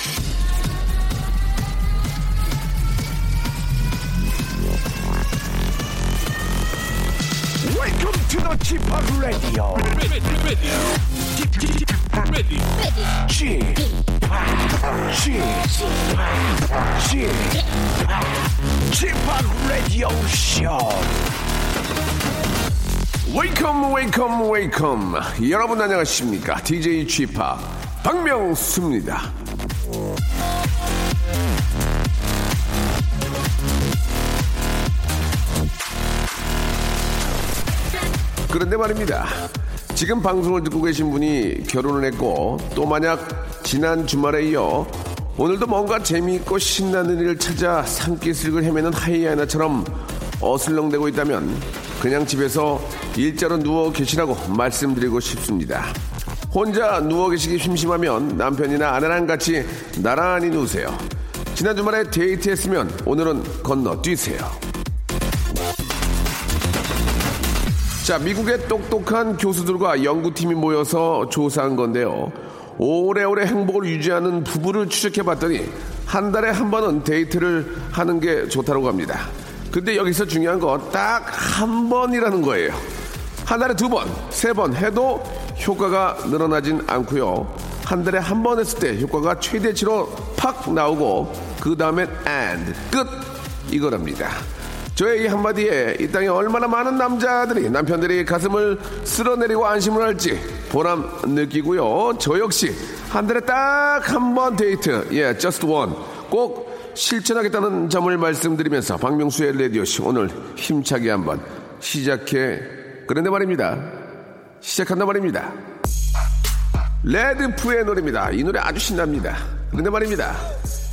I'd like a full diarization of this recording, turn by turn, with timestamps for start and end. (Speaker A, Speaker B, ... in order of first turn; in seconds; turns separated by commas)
Speaker A: 7.6-10.8, Speaker A: 12.0-21.2, Speaker A: 23.2-29.3, Speaker A: 38.5-39.4, Speaker A: 39.9-55.9, Speaker A: 56.5-64.6, Speaker A: 68.0-82.8, Speaker A: 83.5-94.4, Speaker A: 95.0-114.0, Speaker A: 114.6-115.6, Speaker A: 117.0-120.5